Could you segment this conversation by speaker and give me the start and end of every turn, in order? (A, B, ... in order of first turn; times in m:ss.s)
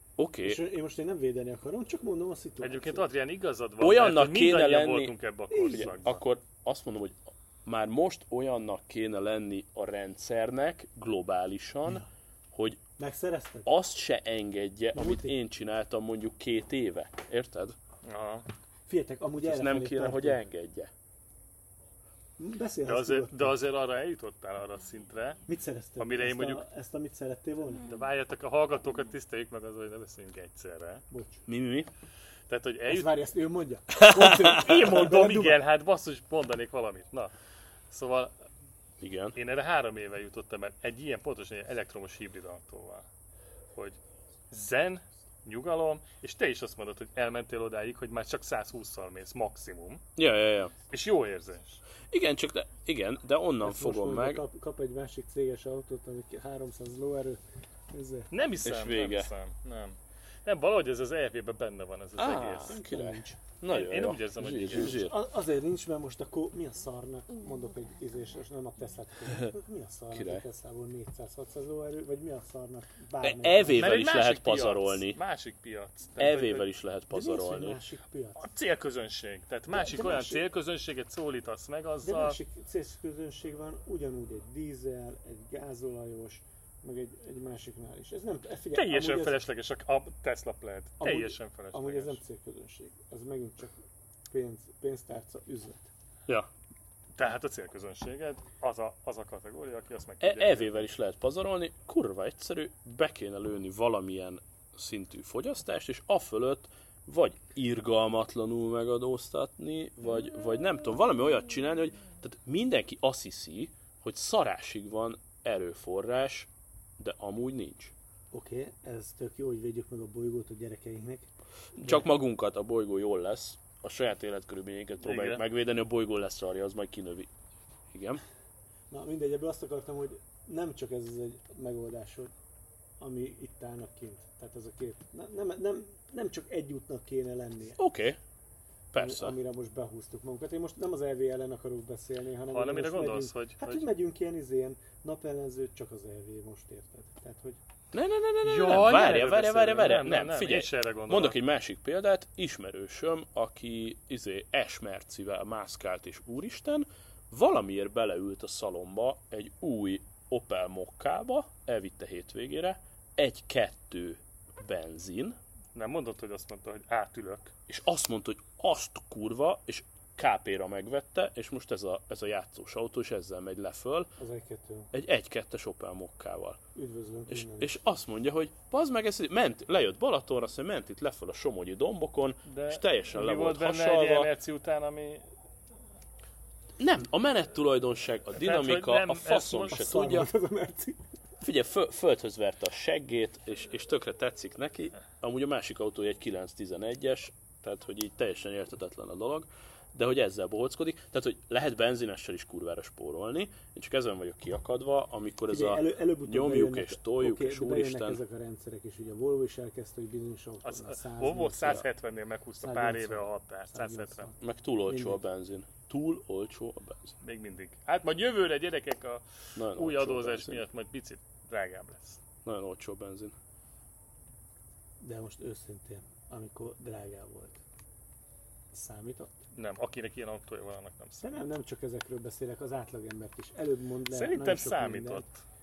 0:00.2-0:00.6 A
0:00.4-0:03.0 B
0:02.6-0:06.2 C
0:03.8-0:12.8 A
0:05.5-0:05.9 B
0:13.0-0:13.7 B
0:13.6-0:17.8 A
0:14.9-0:15.3 B
0:18.0-0:18.4 C
0:18.9-0:20.4 B
0:19.4-0:20.9 A
0:22.4-0:23.6 B
0:22.8-0:25.4 C
0:25.4-0:27.9 B
0:26.0-0:26.6 C
0:27.8-0:31.0 C
0:31.1-0:31.4 B
0:31.5-0:31.9 A
0:32.5-0:33.1 C
0:32.9-0:35.6 B
0:34.0-0:34.9 A
0:34.4-0:37.3 C
0:37.9-0:38.4 C
0:39.0-0:39.4 A
0:39.3-0:43.1 C
0:44.5-0:50.0 C
0:50.2-0:50.7 A
0:50.9-0:51.8 C
0:52.1-0:54.4 A
0:53.6-0:58.3 B
0:58.3-1:02.8 C
0:58.6-0:59.3 A
1:02.2-1:05.1 A
1:02.8-1:03.3 B
1:03.7-1:05.0 C
1:04.7-1:14.0 B
1:10.1-1:10.4 A
1:13.2-1:15.2 A
1:13.8-1:16.6 C
1:16.2-1:17.9 A
1:17.1-1:18.4 B
1:18.4-1:22.4 C
1:19.7-1:20.4 B
1:22.0-1:29.4 B
1:28.7-1:32.2 C
1:31.0-1:35.9 B
1:37.1-1:40.8 C
1:40.2-1:57.9 A
1:58.3-2:01.3 B
2:01.8-2:07.3 A
2:05.0-2:05.4 C
2:07.9-2:08.2 A
2:08.9-2:12.3 B
2:13.0-2:17.8 B
2:17.8-2:18.2 A
2:18.9-2:19.4 A
2:19.0-2:27.6 B
2:22.5-2:23.8 C
2:27.9-2:45.4 A
2:28.4-2:31.4 C
2:45.7-2:47.5 C
2:47.7-2:54.1 A
2:54.2-2:54.9 B
2:54.9-2:56.6 A
2:56.7-2:57.8 B
2:57.3-3:04.3 A
3:02.4-3:05.3 C
3:06.8-3:10.3 A
3:08.4-3:09.8 C
3:09.7-3:11.1 B
3:11.4-3:28.2 A
3:25.5-3:31.9 B
3:30.6-3:34.3 C
3:32.6-3:35.2 B
3:34.4-3:37.2 A
3:37.2-3:42.2 C
3:39.6-3:40.6 A
3:42.4-3:43.3 A
3:45.0-3:47.6 B
3:48.7-3:49.4 B
3:49.5-3:51.3 C
3:51.2-3:55.3 B
3:54.1-3:55.4 C